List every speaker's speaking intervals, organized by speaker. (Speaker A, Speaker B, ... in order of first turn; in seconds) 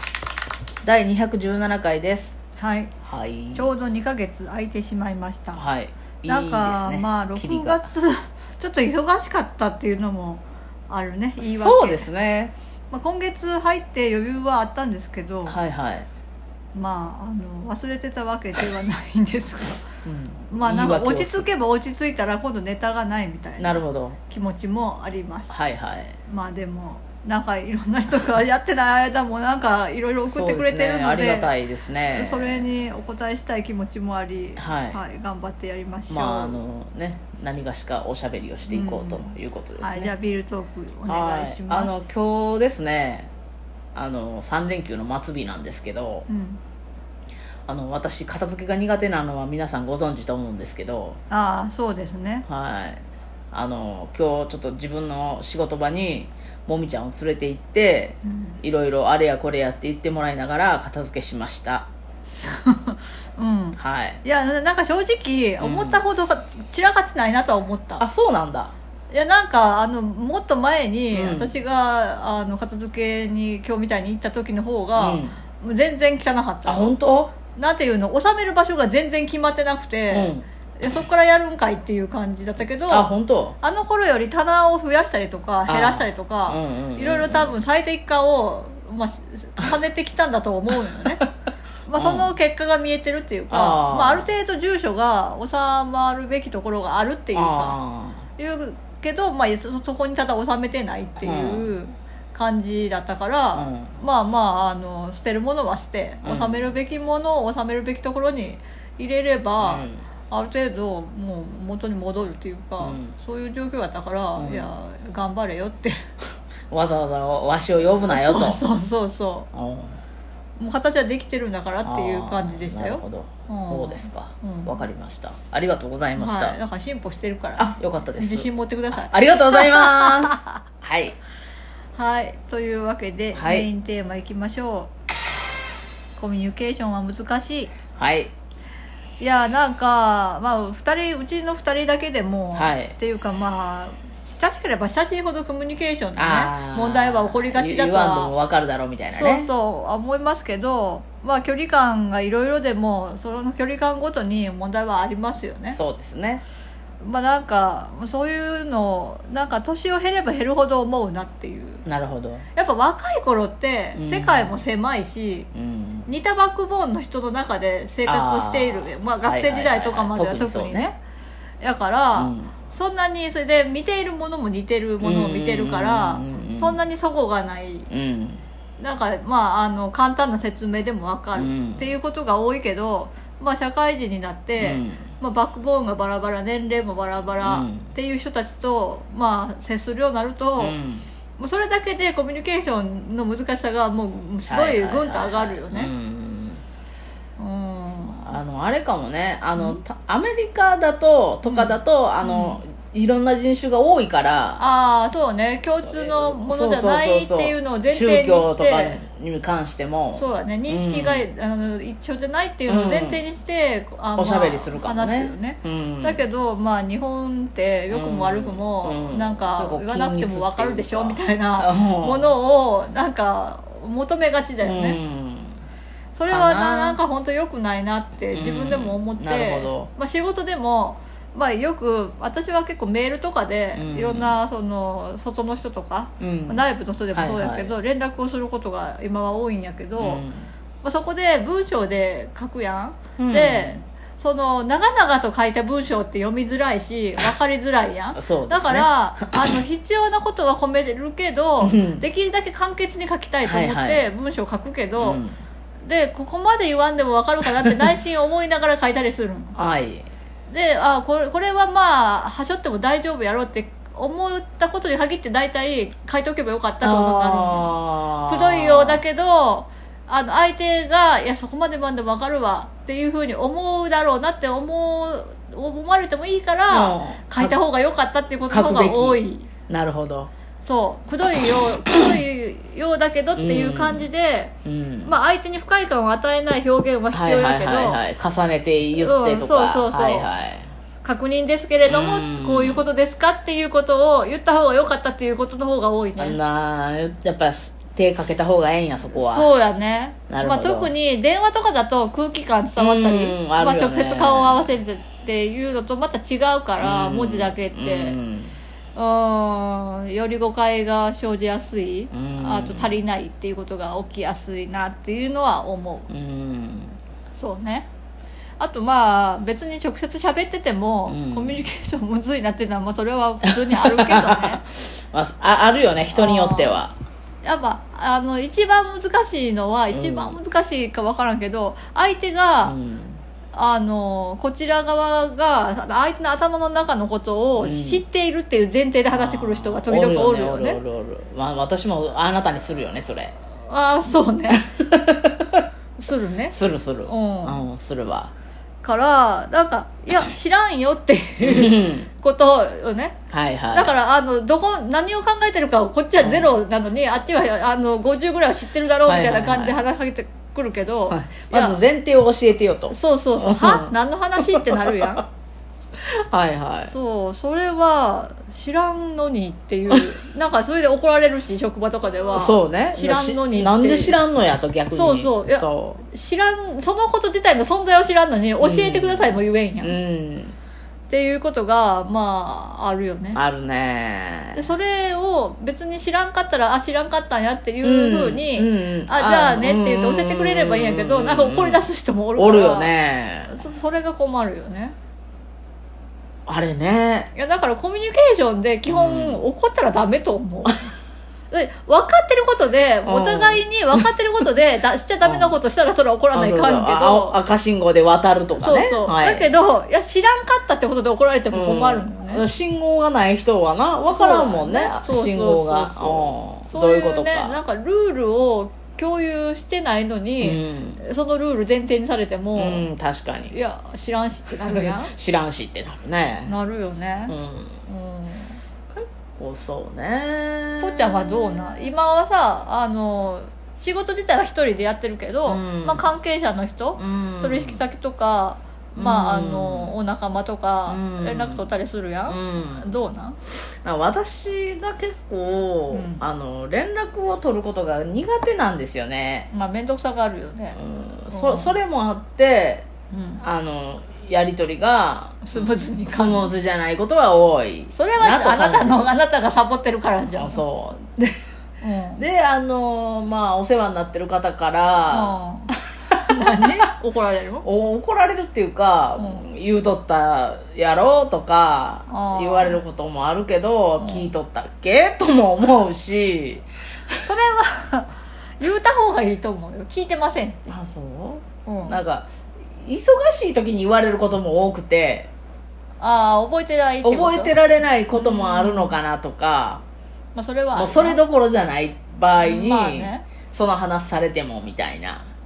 Speaker A: 0.8-2.4, 3.0-3.7, 5.5-7.9, 11.4-12.5, 15.4-16.1, 20.0-21.5, 23.6-24.2, 25.5-26.2, 30.3-32.7, 34.6-35.0, 36.1-40.1, 41.1-43.3, 43.9-46.3, 47.7-51.2, 52.5-61.9, 63.8-64.2, 65.6-66.0, 68.0-68.7, 71.1-71.5, 75.0-75.4, 76.7-77.4, 80.1-80.5, 82.9-83.5, 85.7-87.5, 91.9-92.3, 93.5-94.3, 97.3-98.2, 101.2-101.7, 103.5-103.9, 106.2-106.7, 109.6-110.0, 112.8-113.1, 114.4-114.7, 116.7-118.7, 119.5-120.0, 121.8-126.6, 127.6-131.2, 133.3-133.7, 137.9-138.3, 142.5-142.9, 146.2-149.5, 155.7-156.4, 161.8-162.4, 163.9-164.6, 165.5-166.1, 168.1-170.9, 172.1-172.6, 175.0-176.8, 177.9-178.4, 181.3-181.9, 184.6-185.1, 187.4-187.9, 190.6-191.1, 194.5-196.6, 198.1-204.6, 205.8-211.2, 212.7-213.2, 214.2-216.2, 217.9-222.3, 224.6-225.6, 226.3-227.0, 228.3-229.9, 233.7-234.4, 236.2-236.6, 237.1-237.7, 240.0-240.5, 243.2-243.8, 248.1-249.6, 251.6-252.0, 253.4-254.0, 255.0-255.4, 259.6-260.1, 266.8-269.0, 276.7-277.6, 278.5-280.3, 283.4-284.1, 284.6-285.1, 287.1-290.7, 291.8-292.9, 296.2-299.5, 300.3-300.9, 302.8-304.6, 306.8-308.5, 312.1-313.0, 316.1-317.0, 321.1-321.7, 323.4-326.9, 329.9-330.4, 332.6-333.2, 337.6-338.0, 339.1-343.3, 344.5-345.6, 346.5-348.3, 351.4-352.1, 353.3-353.9, 356.2-356.5, 359.1-359.8, 361.1-365.2, 366.0-366.9, 372.3-376.0, 378.6-380.6, 383.3-384.6, 387.8-391.9, 392.4-393.6, 396.4-397.3, 398.9-399.4, 403.1-404.1, 405.2-405.6, 406.3-409.5, 411.5-417.6, 420.4-421.0, 422.5-423.5, 424.6-426.5, 427.3-427.8, 428.9-431.8, 435.5-436.1, 437.0-437.8, 438.9-439.9, 440.9-441.7, 442.3-443.0, 443.8-449.5, 450.8-452.9, 453.4-459.0, 460.3-461.4, 462.2-465.7, 466.3-466.9, 467.6-477.2, 480.7-482.3, 482.8-485.3, 487.0-489.8, 490.7-495.3
Speaker B: 2.5-3.0, 3.5-5.6, 6.2-12.1, 12.9-15.6, 16.7-25.6, 26.2-31.5, 32.1-36.6, 38.7-42.0, 46.3-46.6, 51.3-52.5, 58.2-58.6, 62.4-68.0, 69.1-83.1, 83.6-91.2, 91.9-97.8, 98.3-116.0, 118.0-119.5, 120.6-124.8, 126.1-130.6, 131.9-134.9, 136.2-137.8, 139.2-148.3, 149.1-155.8, 157.0-161.8, 162.5-165.5, 166.1-171.0, 171.6-177.9, 178.8-190.8, 191.4-195.9, 197.4-198.3, 199.6-199.8, 201.4-202.6, 204.6-209.0, 210.1-225.0, 226.1-240.2, 240.8-255.2, 255.8-259.6, 260.5-279.5, 280.6-288.0, 288.9-290.3, 291.0-296.4, 299.1-308.2, 308.9-316.1, 317.3-317.9, 318.6-324.6, 326.1-326.8, 327.4-332.8, 333.5-340.8, 343.6-344.6, 346.0-347.6, 348.8-353.2, 353.7-361.8, 362.9-365.2, 366.9-374.2, 374.9-380.0, 381.1-383.4, 384.5-394.9, 397.3-400.9, 401.5-407.4, 408.5-412.5, 414.1-422.9, 423.5-425.1, 426.4-427.3, 427.9-428.6, 430.8-443.4, 445.9-446.2, 449.5-451.8, 453.1-453.4, 455.4-456.5, 457.9-460.6, 461.8-462.2, 465.1-467.6, 469.2-469.5, 472.1-472.8, 474.0-474.3, 477.2-480.7, 481.6-482.0, 486.0-487.6, 488.1-489.0, 490.3-491.2, 492.4-493.4